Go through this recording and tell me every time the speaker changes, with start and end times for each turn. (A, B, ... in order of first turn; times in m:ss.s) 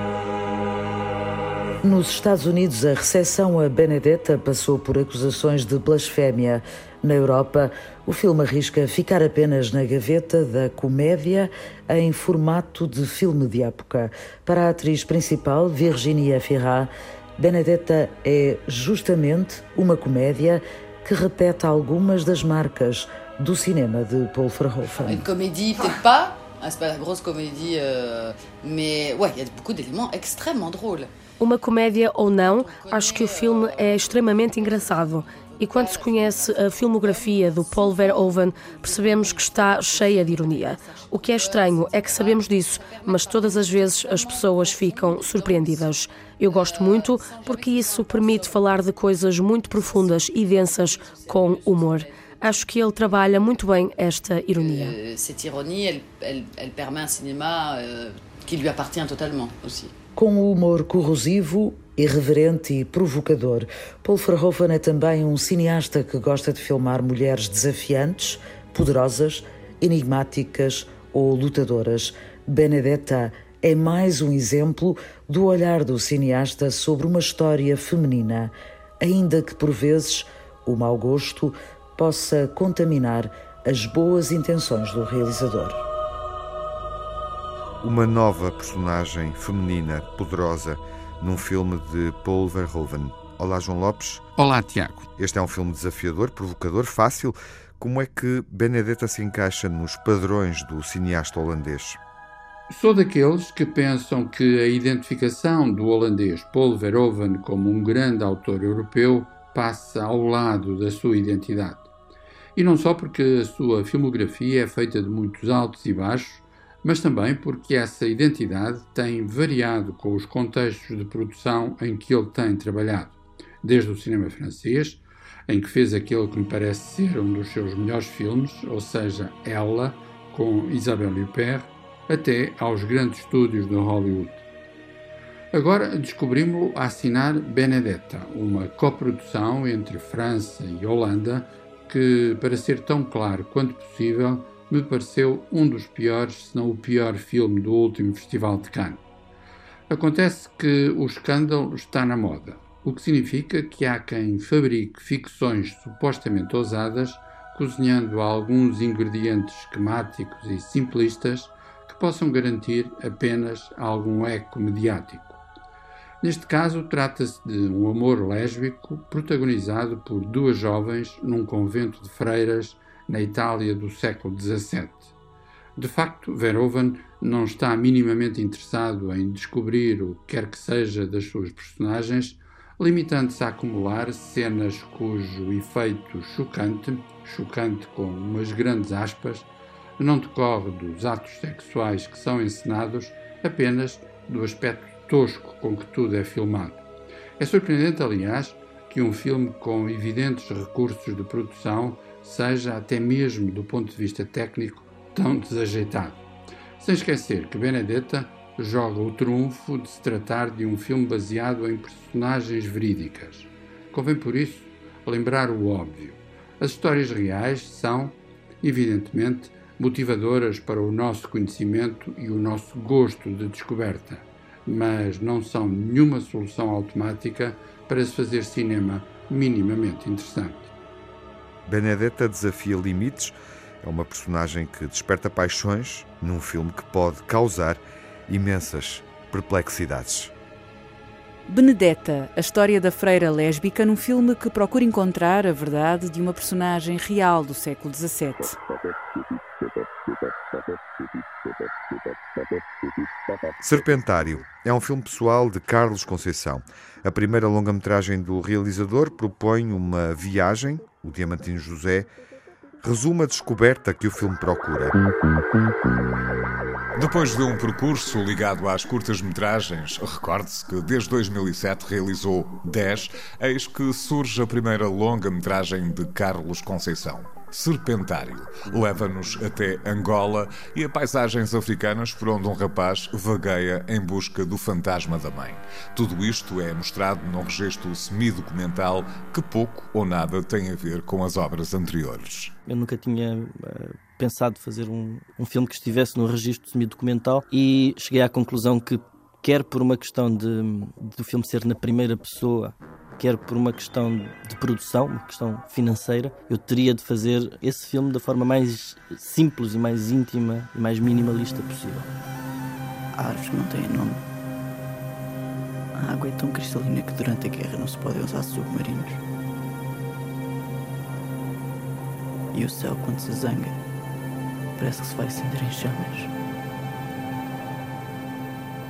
0:01.8-0:25.3 A
0:25.0-0:31.1 B
0:31.4-0:55.0 C
0:32.5-0:45.9 B
0:46.5-0:48.7 B
0:49.8-0:52.6 B
0:54.6-0:59.9 B
1:00.2-1:25.8 A
1:27.8-1:34.2 D
1:34.4-1:35.1 E
1:35.2-1:42.0 D
1:42.7-1:51.9 E
1:52.6-2:14.4 E
2:15.5-2:29.0 E
2:29.9-2:45.4 E
2:46.2-2:55.1 E
2:55.8-3:09.5 E
3:10.0-3:16.8 E
3:17.4-3:26.2 E
3:26.8-3:50.7 E
3:51.7-4:00.3 D
4:01.5-4:08.6 F
4:13.6-4:22.1 D
4:22.8-4:25.0 D
4:27.0-4:52.5 G
4:52.7-5:12.1 H
5:13.1-5:14.2 I
5:16.0-5:19.2 I
5:22.5-5:23.8 I
5:24.8-5:26.3 I